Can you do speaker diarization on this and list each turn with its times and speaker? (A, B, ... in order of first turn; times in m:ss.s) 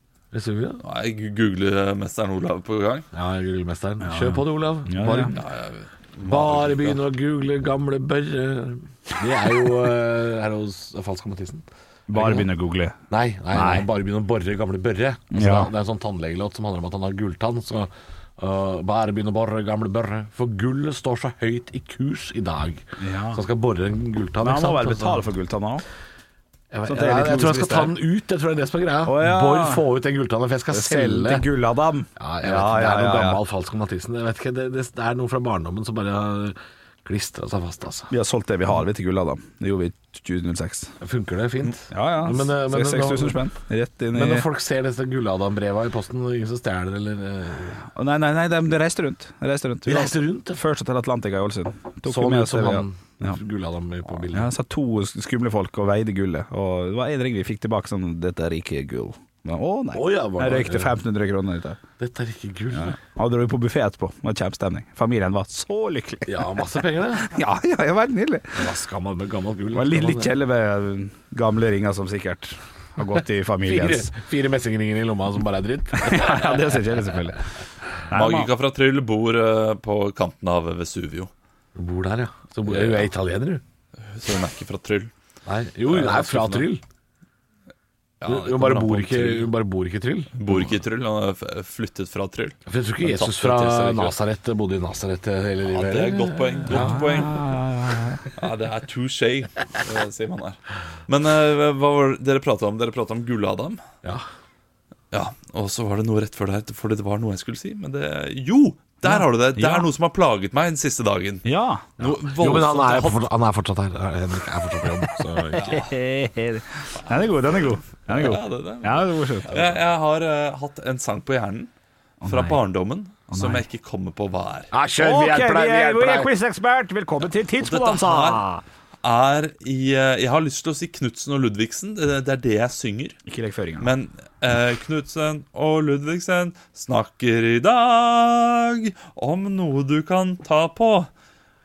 0:00.3-0:00.8 A
0:00.8-0:03.1 B
0:03.1-0:05.4 A
0:04.0-0:05.3 C
0:05.3-0:07.0 B
0:06.2-0:12.5 A
0:12.1-0:13.0 C
0:13.1-0:25.2 A
0:13.5-0:13.8 C
0:15.3-0:15.7 C
0:23.0-0:23.4 C
0:24.4-0:25.8 C
0:26.7-0:31.4 A
0:26.9-0:27.9 C
0:29.0-0:29.8 C
0:30.7-0:33.4 C
0:32.2-0:38.1 A
0:38.1-0:40.9 C
0:41.0-0:43.4 A
0:41.9-0:44.5 C
0:44.1-0:47.8 A
0:47.9-0:53.4 C
0:49.8-0:50.6 A
0:52.0-0:54.5 A
0:54.3-1:01.8 C
0:59.9-1:01.0 A
1:02.0-1:03.0 A
1:02.7-1:06.6 C
1:06.3-1:07.3 A
1:07.2-1:08.6 C
1:08.5-1:10.3 A
1:09.7-1:14.1 C
1:13.6-1:17.0 A
1:15.9-1:17.4 C
1:18.1-1:18.5 C
1:18.1-1:21.3 B
1:21.8-1:23.6 A
1:22.7-1:23.1 B
1:24.1-1:25.1 B
1:25.4-1:26.8 A
1:25.9-1:26.7 B
1:28.2-1:29.5 B
1:28.2-1:30.7 A
1:30.3-1:34.2 B
1:32.7-1:37.2 A
1:35.7-1:37.4 B
1:36.7-1:38.2 C
1:38.3-1:43.8 B
1:45.1-1:51.4 B
1:49.0-1:49.9 C
1:51.4-1:51.8 C
1:52.0-1:53.3 B
1:52.0-1:55.8 A
1:55.5-1:59.5 C
1:55.5-1:55.9 B
1:56.9-2:01.7 B
2:02.2-2:02.6 C
2:02.2-2:04.7 B
2:03.3-2:03.6 C
2:04.7-2:06.3 A
2:05.0-2:08.6 C
2:07.6-2:08.4 B
2:09.0-2:13.2 B
2:13.3-2:13.9 C
2:13.8-2:21.1 B